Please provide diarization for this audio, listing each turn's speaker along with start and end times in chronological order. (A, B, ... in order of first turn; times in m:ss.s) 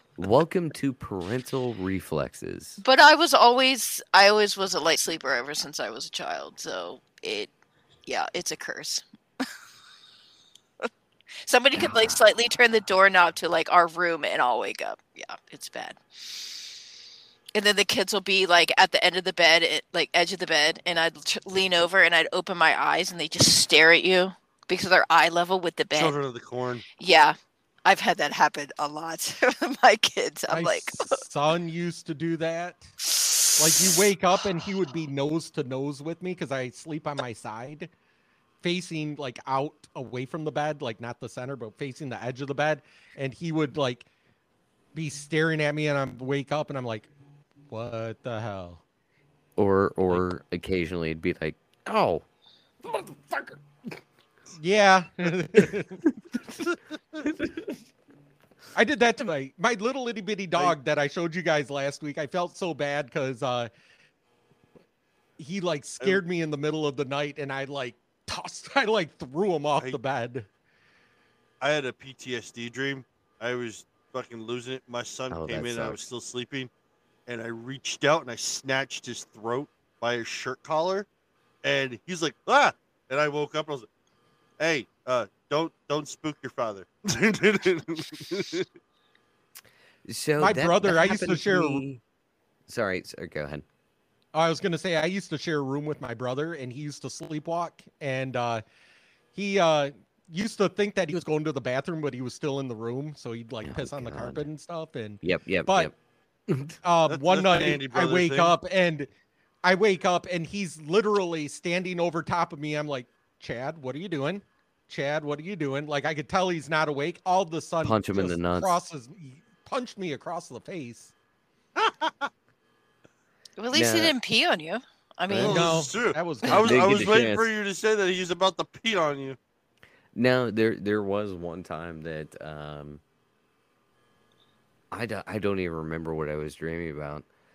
0:00.2-0:02.8 A
0:02.8-0:07.5 B
0:08.1-0:09.0 B
0:11.4-0:16.0 B
0:11.8-0:12.2 A
0:17.5-0:26.2 B
0:25.9-0:26.8 C
0:27.0-0:31.2 B
0:30.5-0:32.9 D
0:33.6-0:37.9 D
0:38.6-0:44.0 D
0:44.9-0:47.1 D
0:47.7-0:48.8 D
0:49.6-0:52.2 A
0:52.8-0:53.6 A
0:54.6-0:56.0 D
0:58.7-1:03.7 D
1:05.4-1:10.5 D
1:11.6-1:16.7 C
1:15.3-1:16.0 A
1:17.3-1:21.1 C
1:21.6-1:23.8 C
1:24.6-1:28.7 C
1:30.0-1:32.0 A
1:30.4-1:31.9 D
1:32.7-1:33.6 A
1:34.3-1:38.6 D
1:39.3-1:45.9 D
1:43.6-1:44.5 A
1:45.2-1:45.9 A
1:46.5-1:46.8 A
1:46.8-1:49.1 D
1:47.1-1:48.6 C
1:49.6-2:01.1 D
1:57.8-1:58.8 A
2:01.8-2:02.3 C
2:03.6-2:05.7 B
2:03.7-2:04.2 A
2:05.3-2:05.6 A
2:05.3-2:09.4 C
2:05.4-2:06.9 D
2:06.5-2:07.5 A
2:10.1-2:13.0 A
2:14.9-2:17.2 A